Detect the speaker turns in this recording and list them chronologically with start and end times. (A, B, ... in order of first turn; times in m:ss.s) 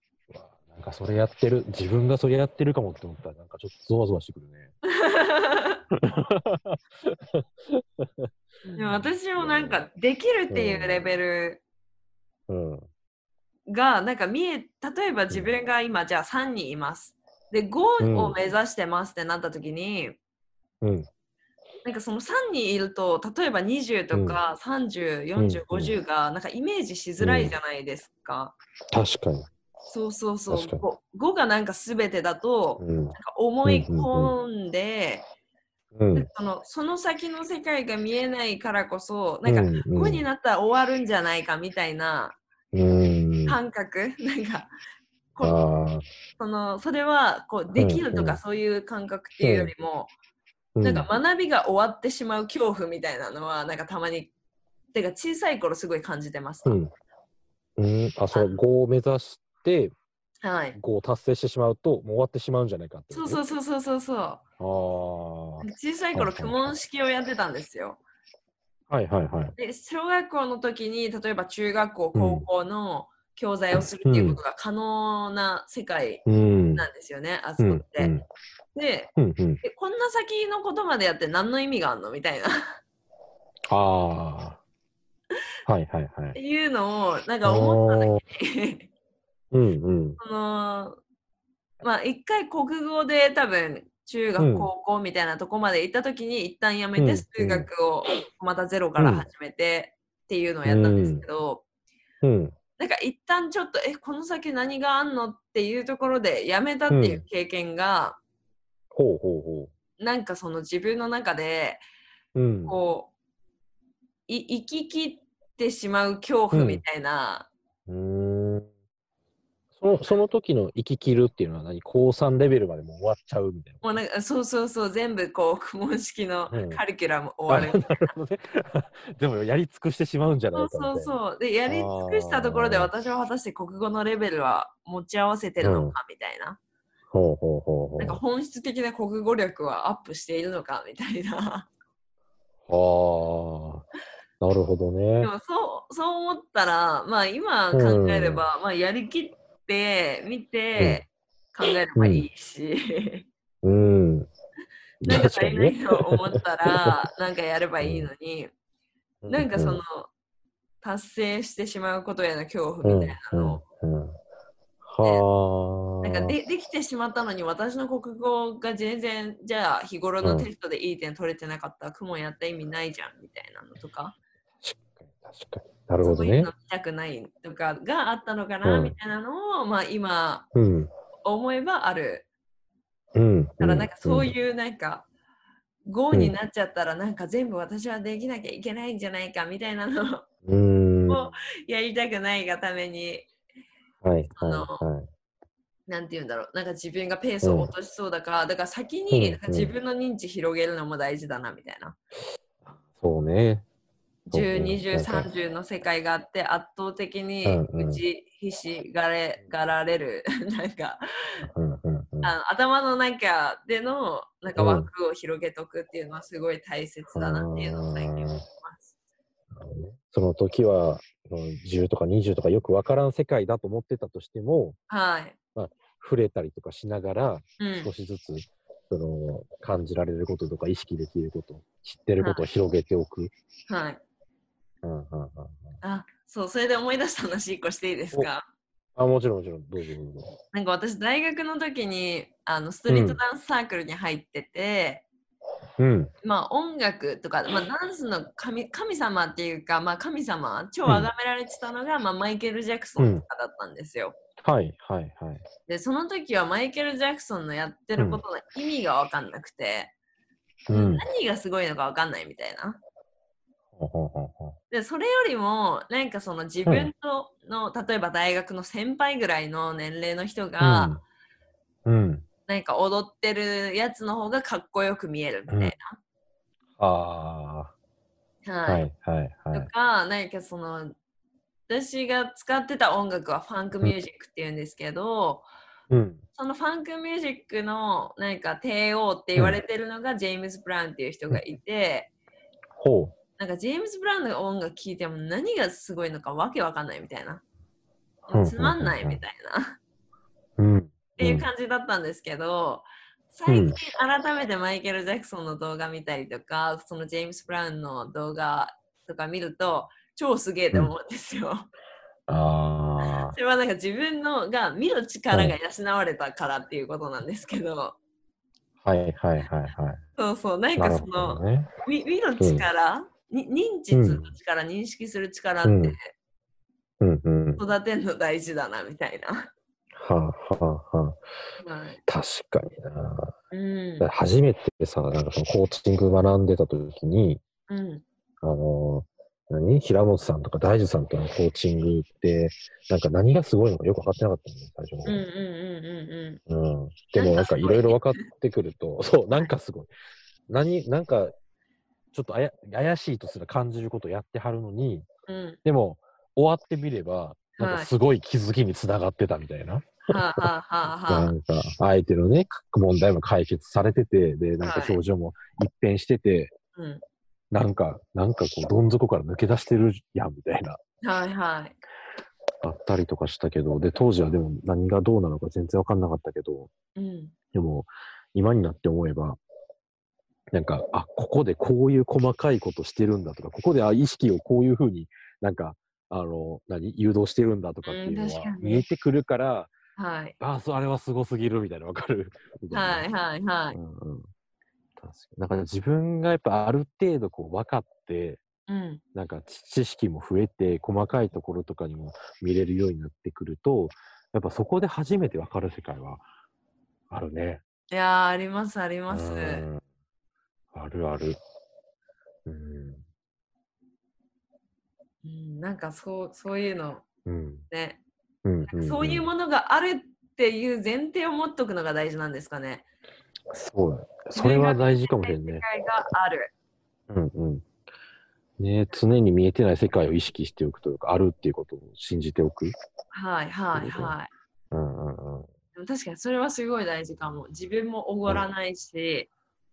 0:00.3-0:04.7 A
0:04.8-0:05.8 B
0:05.9-0:09.8 A
0:08.7-0:11.6 B
0:10.5-0:11.2 A
0:12.5-0:12.9 A
0:13.7-0:20.2 B
0:18.0-0:18.4 A
0:20.8-0:21.1 A
0:21.8-0:28.5 B
0:24.1-0:24.4 A
0:25.4-0:26.0 A
0:27.2-0:27.6 A
0:28.9-0:29.5 A
0:29.9-0:35.2 B
0:30.5-0:30.8 A
0:32.8-0:34.3 A
0:35.9-0:36.3 A
0:36.1-0:42.4 B
0:39.4-0:40.2 A
0:42.7-0:43.6 A
0:43.5-0:44.7 B
0:45.4-0:45.6 B
0:45.4-0:46.1 A
0:46.4-0:50.1 B
0:47.7-0:48.4 A
0:49.4-0:49.7 A
0:50.8-0:51.1 A
0:50.8-0:54.3 B
0:54.9-0:56.8 B
0:56.6-0:56.9 A
0:57.8-0:59.9 A
0:58.3-0:58.6 B
1:00.4-1:00.8 B
1:00.7-1:03.4 A
1:03.1-1:04.4 B
1:04.6-1:06.6 A
1:05.6-1:08.0 B
1:08.9-1:09.6 A
1:09.6-1:16.2 B
1:12.1-1:12.4 A
1:13.7-1:14.4 A
1:16.2-1:16.9 A
1:16.8-1:18.1 B
1:17.6-1:18.2 A
1:18.7-1:22.8 B
1:19.2-1:19.6 A
1:23.7-1:24.6 A
1:25.6-1:26.4 A
1:26.3-1:28.9 B
1:27.4-1:28.2 A
1:29.5-1:30.2 A
1:30.2-1:31.0 B
1:31.8-1:41.6 B
1:34.4-1:34.7 A
1:37.0-1:37.7 A
1:39.0-1:39.3 A
1:40.6-1:41.2 A
1:42.2-1:42.5 A
1:42.8-1:48.2 B
1:46.9-1:47.2 A
1:48.9-1:49.7 A
1:50.0-1:51.8 B
1:52.3-1:52.8 A
1:52.7-1:53.1 B
1:54.3-1:57.5 B
1:56.5-1:56.8 A
1:57.9-1:58.7 A
1:59.8-2:03.8 A
2:03.8-2:08.1 B
2:06.5-2:06.8 A
2:07.5-2:11.1 A
2:10.5-2:16.6 B
2:11.7-2:12.9 A
2:15.6-2:16.0 A
2:17.1-2:18.2 A
2:18.0-2:21.7 B
2:22.7-2:23.8 A
2:24.4-2:25.3 A
2:25.2-2:33.3 B
2:27.7-2:28.4 A
2:30.8-2:31.0 A
2:31.9-2:32.3 A
2:33.6-2:34.3 A
2:35.0-2:36.2 A
2:35.1-2:38.5 B
2:37.8-2:38.1 A
2:39.2-2:39.8 A
2:39.3-2:40.1 B
2:40.8-2:43.6 B
2:42.8-2:44.2 A
2:44.8-2:46.3 A
2:46.0-2:54.2 B
2:50.2-2:50.5 A
2:54.6-2:56.5 A
2:56.0-3:00.4 B
2:58.6-2:58.9 A
3:00.5-3:00.9 A
3:01.2-3:02.2 B
3:03.1-3:04.3 A
3:03.6-3:05.1 B
3:05.8-3:10.2 B
3:10.4-3:11.3 A
3:11.1-3:13.3 B
3:14.0-3:15.1 A
3:14.3-3:14.8 B
3:15.9-3:22.0 B
3:17.4-3:17.7 A
3:19.1-3:19.7 A
3:22.6-3:23.6 A
3:24.3-3:31.4 B
3:24.3-3:25.3 A
3:27.4-3:28.0 A
3:31.4-3:32.3 A
3:32.2-3:38.9 B
3:34.6-3:34.9 A
3:37.1-3:38.4 A
3:39.5-3:44.8 A
3:44.9-3:45.4 B
3:45.5-3:53.3 A
3:47.6-3:47.9 B
3:53.7-3:54.0 B
3:54.8-3:55.7 A
3:55.8-3:58.4 B
3:59.0-4:00.3 A
4:00.5-4:05.0 B
4:02.9-4:03.2 A
4:05.8-4:06.1 A
4:06.2-4:14.2 B
4:13.0-4:13.2 A
4:14.4-4:15.4 A
4:15.7-4:19.9 B
4:18.0-4:18.2 A
4:20.7-4:21.0 A
4:20.7-4:22.8 B
4:23.8-4:24.6 A
4:24.7-4:31.0 B
4:26.6-4:26.9 A
4:30.6-4:31.0 A
4:31.8-4:32.2 A
4:32.5-4:36.0 B
4:35.5-4:35.7 A
4:36.8-4:37.7 A
4:38.4-4:38.8 B
4:38.6-4:39.7 A
4:39.5-4:41.0 B
4:41.7-4:45.5 B
4:45.9-4:46.2 A
4:46.3-4:52.1 B
4:52.7-4:53.1 A
4:53.4-4:57.4 B
4:58.3-4:59.8 B
4:58.3-4:59.2 A
5:00.6-5:01.5 A
5:01.2-5:11.7 B
5:03.5-5:03.8 A
5:12.3-5:13.4 A
5:13.0-5:18.0 B
5:15.3-5:15.6 A
5:18.8-5:20.0 A
5:20.2-5:26.1 B
5:20.8-5:21.7 A
5:22.4-5:22.7 A
5:23.9-5:24.3 A
5:25.6-5:26.0 A
5:27.0-5:27.6 A
5:27.6-5:29.5 B
5:29.9-5:31.2 A
5:31.6-5:32.0 B
5:32.1-5:33.3 A
5:33.5-5:34.1 B
5:34.0-5:37.4 A
5:37.7-5:38.0 B
5:38.4-5:45.2 A
5:45.0-5:46.4 B
5:46.5-5:49.9 A
5:47.2-5:48.3 B
5:50.5-5:51.3 A
5:52.1-5:55.1 A
5:55.3-5:55.6 B
5:55.6-6:00.4 A
5:57.6-5:57.9 B
6:00.1-6:01.3 B
6:01.1-6:06.5 A
6:04.6-6:05.0 B
6:06.8-6:07.0 B
6:07.5-6:10.8 A
6:11.0-6:11.8 B
6:12.6-6:16.7 A
6:17.0-6:17.3 B
6:17.5-6:19.4 A
6:20.5-6:29.7 A
6:27.8-6:28.8 B
6:30.0-6:30.4 B
6:30.4-6:33.0 A
6:32.7-6:33.8 B
6:33.7-6:34.3 A
6:35.0-6:38.4 A
6:38.7-6:39.0 B
6:39.1-6:46.2 A
6:47.1-6:47.6 A
6:47.9-6:49.6 B
6:49.1-6:49.8 A
6:50.7-6:51.4 A
6:52.4-6:53.0 A
6:55.2-6:57.0 B
6:57.2-6:57.6 A
6:57.7-6:58.0 B
6:58.4-6:59.3 A
6:58.7-7:02.8 B
7:03.5-7:05.6 A
7:04.3-7:06.5 B
7:07.1-7:07.6 A
7:08.6-7:12.7 A
7:13.1-7:14.3 B
7:13.7-7:14.1 A
7:14.7-7:15.5 A
7:15.8-7:19.3 B